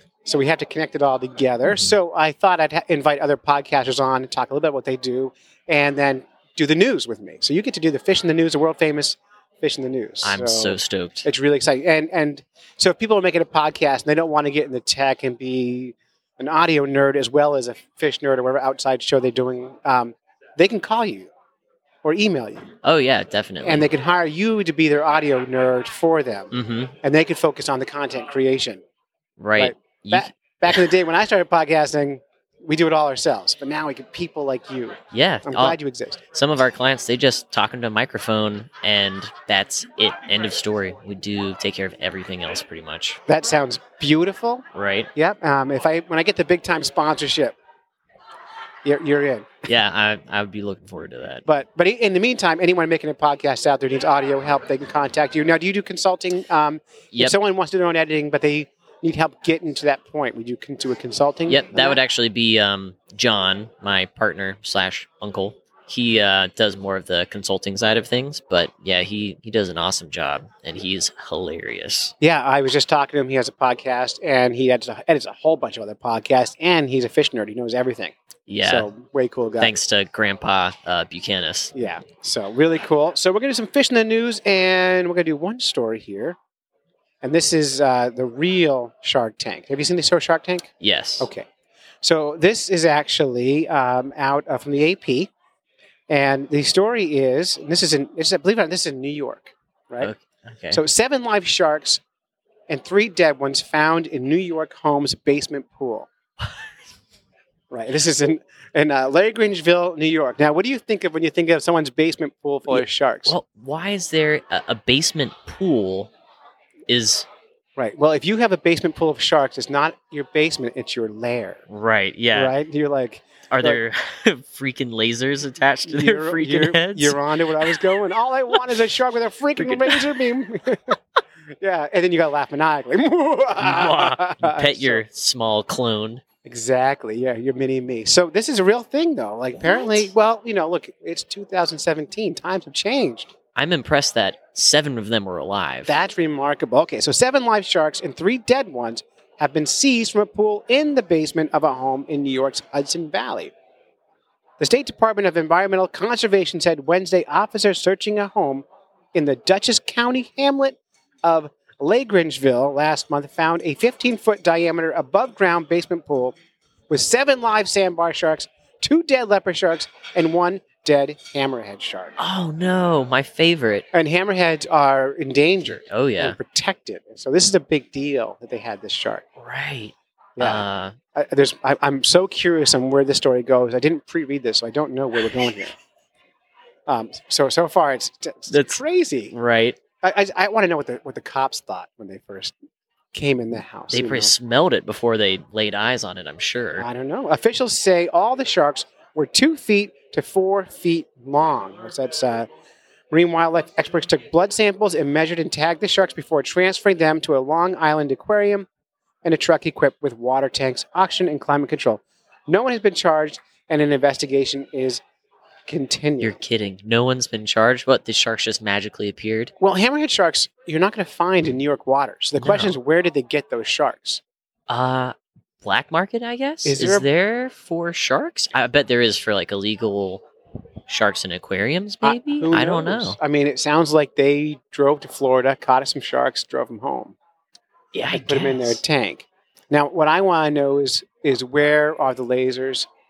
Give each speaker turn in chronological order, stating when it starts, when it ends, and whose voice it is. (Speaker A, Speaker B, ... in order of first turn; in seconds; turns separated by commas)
Speaker A: 0.2-21.3, Speaker B: 10.2-11.2, Speaker A: 22.0-22.7, Speaker B: 22.8-23.9, Speaker A: 23.6-28.8, Speaker B: 26.5-26.9, Speaker B: 29.4-30.8, Speaker A: 29.6-36.2, Speaker B: 35.1-35.8, Speaker B: 36.3-43.2, Speaker A: 43.2-47.5, Speaker B: 44.7-45.1, Speaker A: 48.8-49.6, Speaker B: 49.6-51.4, Speaker A: 51.5-62.0, Speaker B: 61.5-72.1, Speaker A: 72.2-79.7, Speaker B: 78.5-78.9, Speaker B: 79.6-81.7, Speaker A: 81.7-86.4, Speaker A: 87.2-91.5, Speaker B: 90.8-91.3, Speaker A: 92.0-95.3, Speaker A: 96.1-100.1, Speaker B: 100.0-100.8, Speaker A: 100.7-102.0, Speaker A: 102.7-106.1, Speaker A: 107.7-113.4, Speaker B: 112.7-116.1, Speaker B: 116.9-117.3, Speaker A: 117.8-121.6, Speaker B: 121.7-122.5, Speaker A: 122.3-123.8, Speaker B: 123.5-127.8, Speaker A: 125.9-131.0, Speaker B: 129.6-130.0, Speaker A: 131.6-135.0, Speaker B: 133.6-136.2, Speaker A: 136.4-143.3, Speaker B: 139.6-140.1, Speaker B: 143.5-145.9, Speaker A: 145.9-153.5, Speaker A: 154.6-166.4, Speaker A: 166.9-172.2, Speaker B: 172.2-173.9, Speaker A: 173.9-179.2, Speaker B: 175.9-176.4, Speaker B: 179.4-180.9, Speaker A: 180.4-180.6, Speaker A: 181.1-185.7, Speaker A: 186.9-189.3, Speaker B: 188.5-188.8, Speaker B: 189.3-189.8, Speaker A: 190.0-192.5, Speaker A: 193.1-194.3, Speaker B: 193.9-196.9, Speaker A: 196.8-202.5, Speaker A: 203.1-208.7, Speaker A: 209.2-215.0, Speaker A: 215.7-216.3, Speaker B: 216.2-219.5, Speaker A: 219.6-224.2, Speaker B: 222.4-222.7, Speaker B: 224.7-230.2, Speaker A: 226.6-227.1, Speaker B: 230.9-233.2, Speaker A: 232.0-237.2, Speaker B: 237.9-238.8, Speaker A: 238.1-242.9